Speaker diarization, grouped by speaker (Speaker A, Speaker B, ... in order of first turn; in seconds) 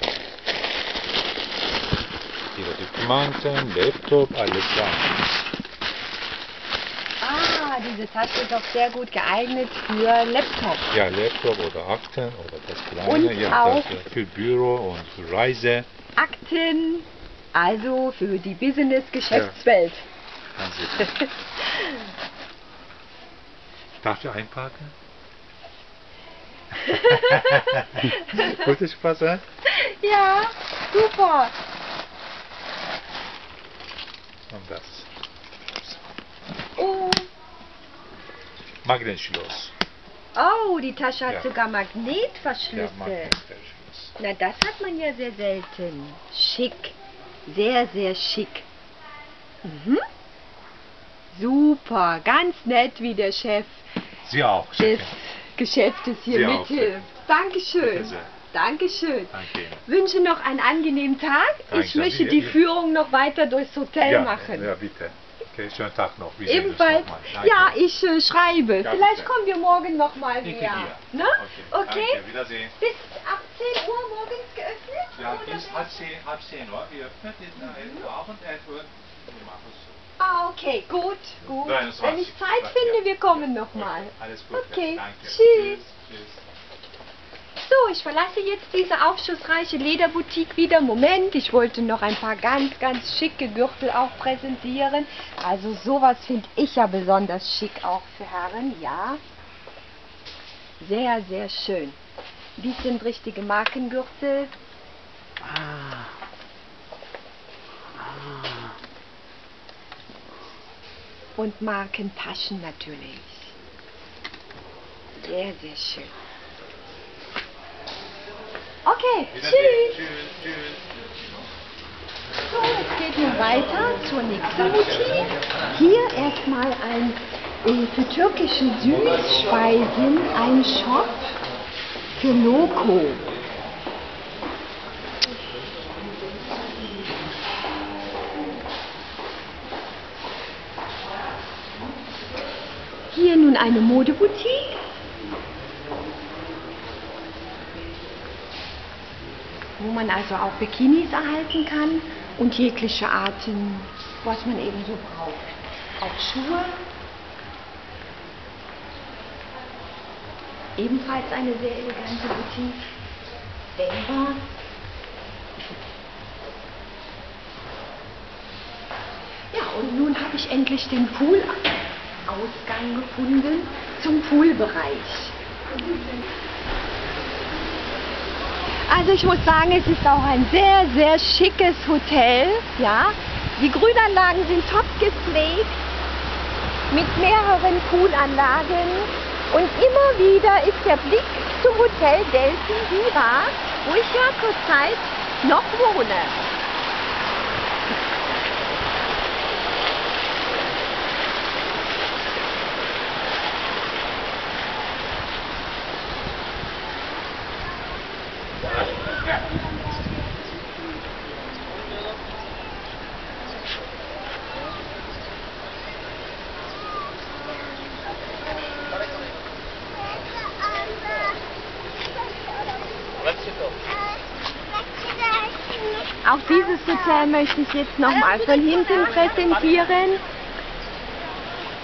Speaker A: 2.5-5.2, 10.9-15.9, 19.3-19.6, 20.5-21.2, 24.0-24.9, 26.8-29.4, 34.5-35.1, 38.8-39.7, 42.7-44.1, 54.2-55.1, 56.3-57.1, 57.8-58.3, 59.3-59.8, 61.7-62.6, 64.0-67.8, 68.8-69.3, 70.4-72.8, 75.1-80.1, 81.4-86.4, 119.3-120.9
Speaker B: 7.2-10.9, 13.1-14.0, 16.1-20.1, 21.0-22.1, 26.8-28.7, 29.6-31.5, 36.8-37.3, 40.3-43.4, 44.2-47.0, 47.5-48.6, 49.6-50.0, 51.3-53.9, 54.8-59.3, 59.8-64.7, 66.5-76.0, 77.6-78.1, 80.2-85.8, 87.6-99.2, 100.8-102.0, 102.6-104.5, 111.4-113.5, 115.2-116.1, 118.8-120.0, 122.5-131.3, 132.2-133.2, 143.1-144.8, 149.8-156.8, 160.8-162.9, 163.8-164.5, 169.5-171.7, 172.2-176.2, 178.8-185.8, 186.9-196.4, 226.2-230.2